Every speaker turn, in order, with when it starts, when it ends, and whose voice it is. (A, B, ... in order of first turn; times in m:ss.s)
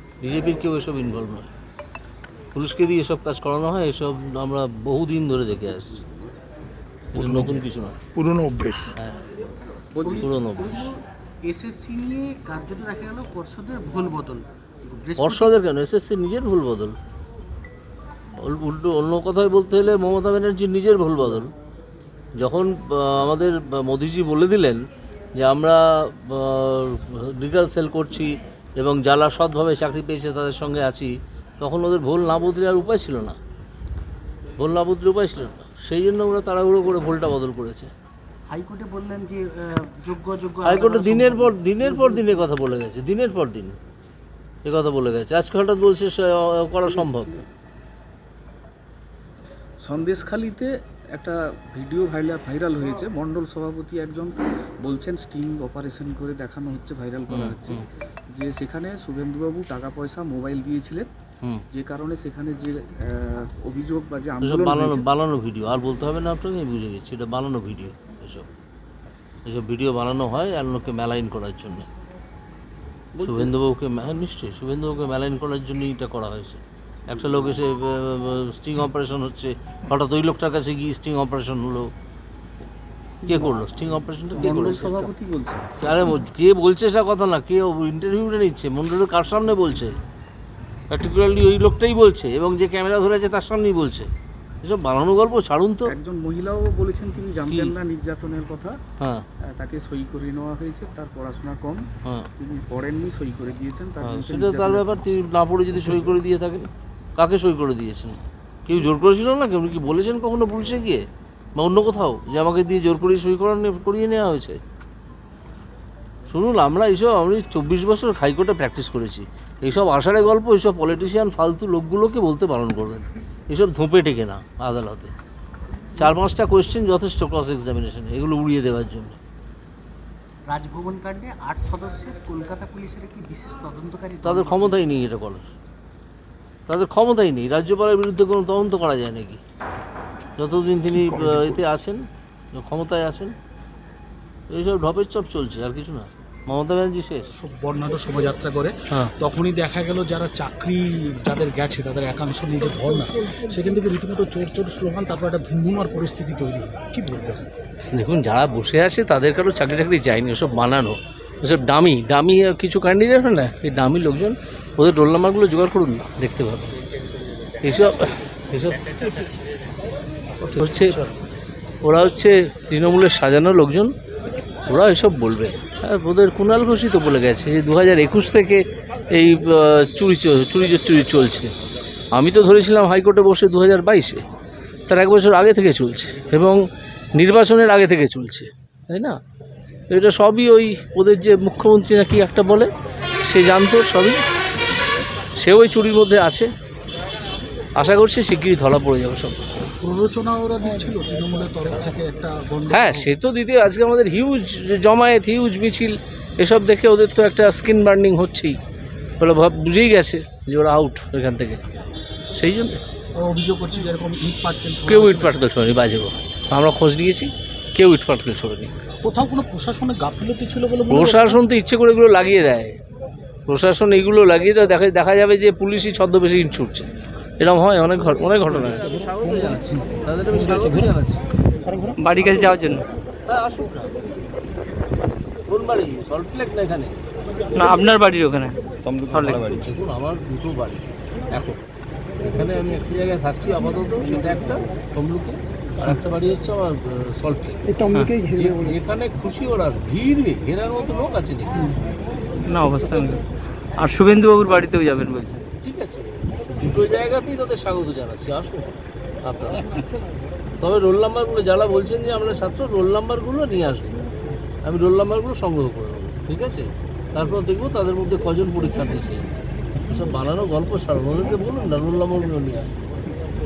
0:00.2-0:01.5 A
0:02.5-0:06.1 A
0:07.1-0:08.0 A
0:07.2-0:07.5 B
0:08.2-0:09.0 B
0:09.9-0:10.4 C
0:10.0-0:15.6 D
0:10.1-0:10.9 A
0:15.2-0:17.0 A
0:18.4-0:21.5 A
0:22.4-0:24.8 A
0:25.4-0:33.4 A
0:34.6-0:37.9 A
0:38.5-0:42.4 D
0:40.6-0:43.8 A
0:44.6-0:47.3 A
0:47.0-0:47.3 C
0:49.8-0:57.8 C
0:57.3-0:57.8 A
0:58.4-1:01.1 C
1:01.7-1:05.0 C
1:04.4-1:08.5 A
1:09.4-1:11.9 A
1:13.2-1:13.5 C
1:13.2-1:21.9 A
1:23.3-1:23.5 C
1:23.3-1:25.1 A
1:24.4-1:25.8 C
1:25.8-1:30.0 A
1:30.9-1:34.1 A
1:34.6-1:35.9 A
1:35.9-1:38.8 C
1:37.5-1:37.8 A
1:39.0-1:39.2 A
1:39.5-1:41.8 C
1:42.4-1:45.1 C
1:44.0-1:51.0 A
1:51.6-1:54.6 A
1:56.3-2:05.1 A
2:06.0-2:09.2 A
2:10.5-2:14.8 D
2:14.2-2:15.5 A
2:16.7-2:19.4 A
2:20.4-2:23.4 A
2:24.5-2:27.3 A
2:27.3-2:37.5 E
2:37.9-2:46.8 A
2:47.6-2:49.3 A
2:50.4-2:51.1 A
2:51.8-2:53.9 A
2:54.7-3:01.5 A
3:02.1-3:04.2 A
3:04.9-3:06.6 A
3:07.2-3:09.2 A
3:09.9-3:12.7 A
3:13.3-3:14.2 A
3:15.4-3:16.5 A
3:17.8-3:19.5 A
3:19.8-3:23.1 E
3:22.7-3:28.6 A
3:29.2-3:31.6 A
3:32.3-3:32.8 A
3:33.2-3:35.4 E
3:34.9-3:38.7 A
3:39.0-3:41.4 E
3:40.9-3:42.8 A
3:43.5-3:46.9 A
3:47.4-3:51.2 A
3:52.0-3:52.8 F
3:53.3-3:53.9 A
3:55.5-3:57.0 A
3:57.6-3:58.6 F
3:58.8-3:59.6 B
3:59.1-3:59.5 F
3:59.4-4:01.6 A
4:02.2-4:11.8 A
4:07.9-4:08.2 F
4:12.5-4:13.2 F
4:13.8-4:15.5 F
4:15.6-4:18.7 A
4:19.2-4:19.8 A
4:20.6-4:24.0 A
4:24.6-4:29.3 A
4:29.9-4:33.1 A